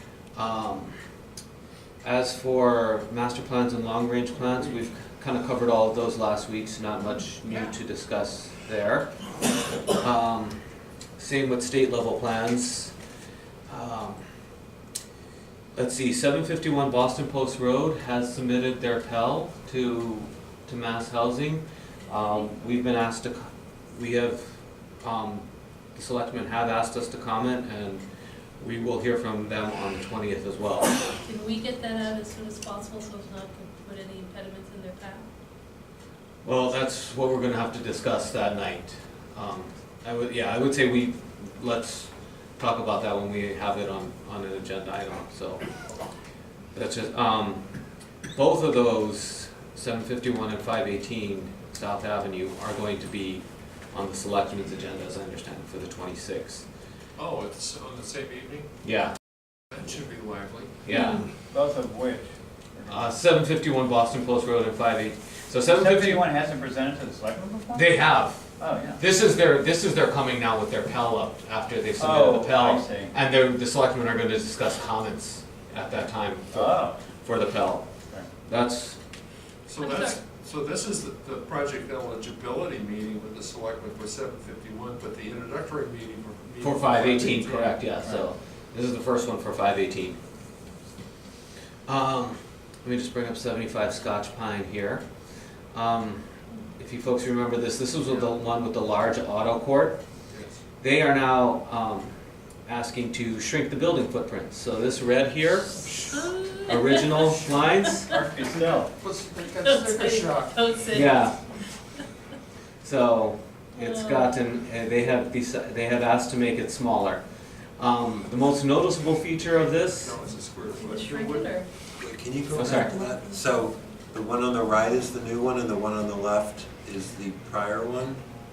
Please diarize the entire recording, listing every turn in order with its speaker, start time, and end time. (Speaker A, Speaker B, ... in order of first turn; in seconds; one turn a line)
Speaker A: 0.3-0.9
Speaker A: 2.0-9.1
Speaker A: 10.0-10.6
Speaker A: 11.2-12.9
Speaker A: 13.7-14.2
Speaker A: 15.7-28.0
Speaker A: 28.6-31.0
Speaker B: 31.2-35.2
Speaker A: 36.4-45.6
Speaker A: 46.7-47.6
Speaker A: 48.3-56.6
Speaker C: 57.2-58.6
Speaker A: 58.8-59.1
Speaker C: 59.7-60.7
Speaker A: 60.8-61.2
Speaker B: 60.9-61.2
Speaker D: 61.5-63.1
Speaker A: 62.9-66.2
Speaker D: 65.7-69.0
Speaker A: 67.7-77.9
Speaker D: 72.0-73.1
Speaker D: 76.5-77.0
Speaker A: 78.5-79.0
Speaker C: 79.7-87.8
Speaker B: 79.8-80.2
Speaker A: 86.6-90.2
Speaker A: 91.9-95.0
Speaker A: 95.7-96.2
Speaker A: 96.8-100.0
Speaker C: 100.3-100.5
Speaker A: 100.8-102.1
Speaker A: 102.7-105.8
Speaker C: 105.8-106.6
Speaker B: 106.1-107.2
Speaker A: 106.7-108.1
Speaker D: 108.1-108.9
Speaker C: 109.0-110.7
Speaker B: 109.6-111.3
Speaker A: 110.9-111.3
Speaker A: 112.8-117.2
Speaker B: 113.8-114.3
Speaker A: 117.8-120.2
Speaker C: 119.9-121.5
Speaker B: 120.8-121.7
Speaker E: 122.0-128.2
Speaker A: 122.5-123.0